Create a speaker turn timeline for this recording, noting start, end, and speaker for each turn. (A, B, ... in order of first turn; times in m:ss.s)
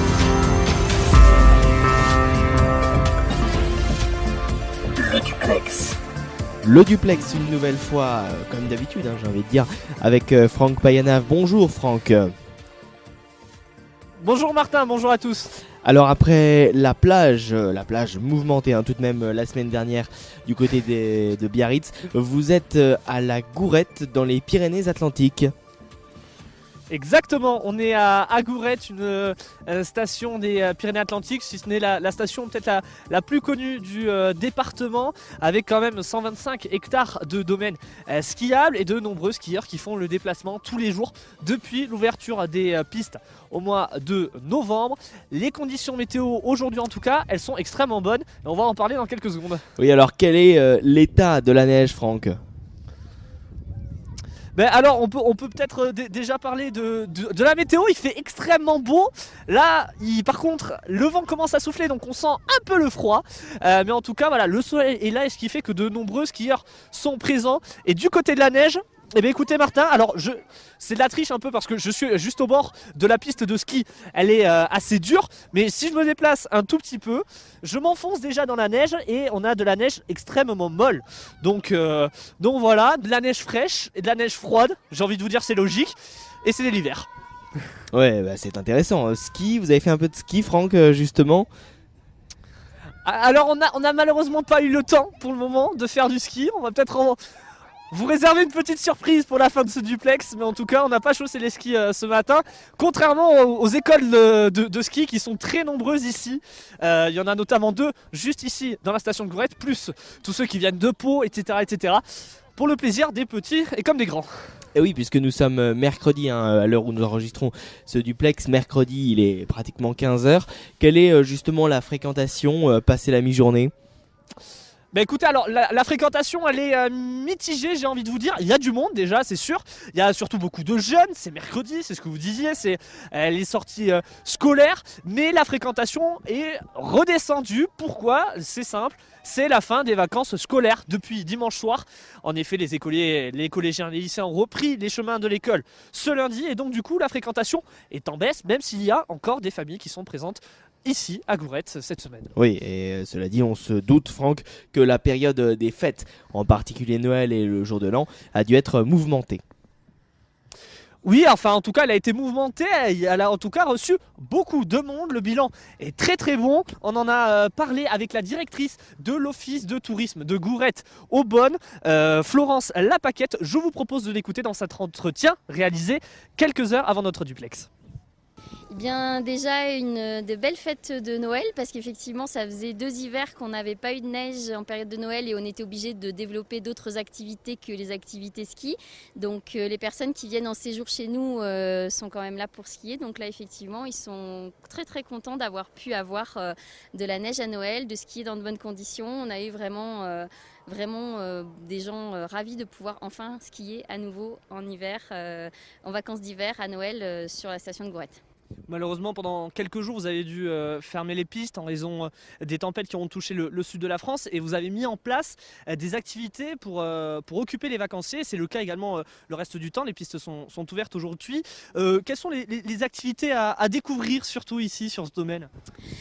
0:06.6-0:12.3 A
0:14.2-0:15.5 B
0:15.8-0:25.5 A
0:26.9-0:49.6 B
0:49.8-0:52.4 A
0:54.5-1:27.1 B
1:27.9-1:31.5 A
1:33.0-1:37.2 B
1:37.9-1:52.0 B
1:52.5-1:54.3 B
1:54.7-2:03.7 A
2:04.9-2:32.3 B
2:32.4-2:39.4 A
2:41.0-2:57.7 B
2:58.7-3:28.2 C
3:28.7-3:45.5 B